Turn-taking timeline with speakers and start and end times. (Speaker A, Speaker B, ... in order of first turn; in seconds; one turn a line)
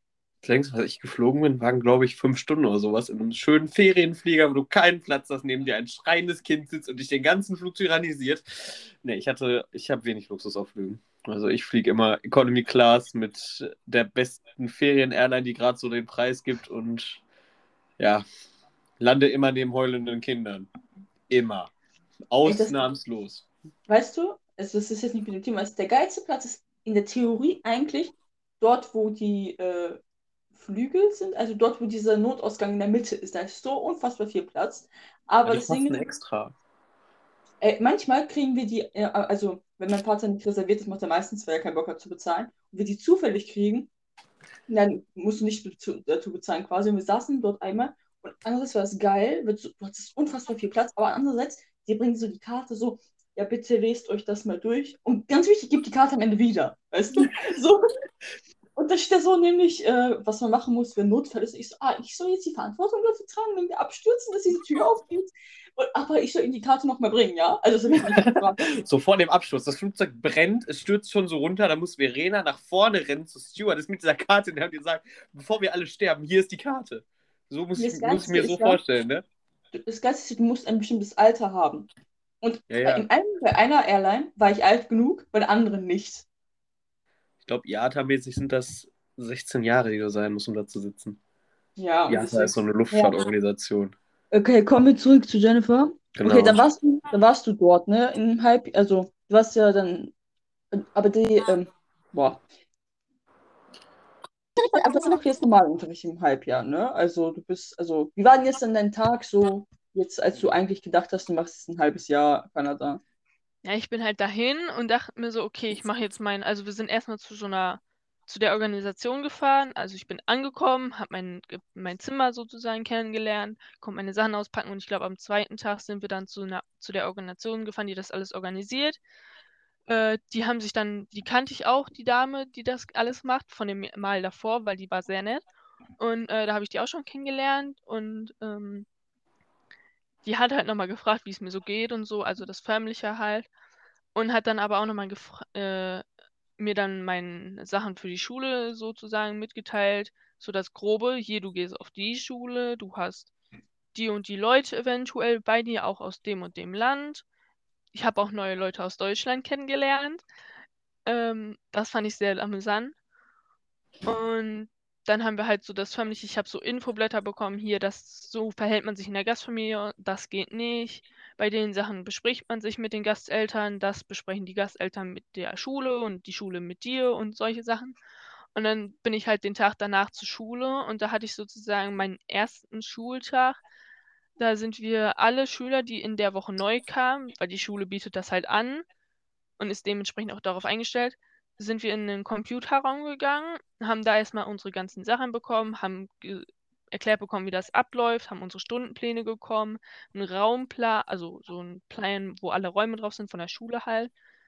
Speaker A: 0.4-17.2
Speaker A: 18.0-18.2
Speaker A: 19.0-20.7
Speaker A: 21.3-21.7
Speaker A: 22.3-23.5
Speaker B: 22.4-22.8
Speaker B: 23.9-30.0
Speaker B: 30.5-36.0
Speaker A: 35.5-36.5
Speaker B: 37.6-43.9
Speaker B: 44.7-57.8
Speaker B: 58.8-68.7
Speaker A: 68.2-79.2
Speaker B: 77.8-78.8
Speaker B: 79.7-81.9
Speaker B: 82.4-86.3
Speaker A: 82.7-83.1
Speaker A: 87.5-91.2
Speaker B: 91.8-93.2
Speaker A: 92.1-94.0
Speaker B: 94.3-100.1
Speaker A: 96.2-96.6
Speaker B: 100.7-102.4
Speaker B: 104.6-113.0
Speaker C: 113.6-129.0
Speaker C: 129.9-135.4
Speaker C: 136.0-138.9
Speaker C: 140.2-143.5
Speaker C: 144.2-146.0
Speaker C: 146.6-153.3
Speaker C: 153.9-157.2
Speaker C: 157.9-160.2
Speaker C: 161.1-162.9
Speaker C: 164.1-178.0
Speaker C: 178.6-183.6
Speaker C: 184.4-188.8
Speaker C: 189.6-204.1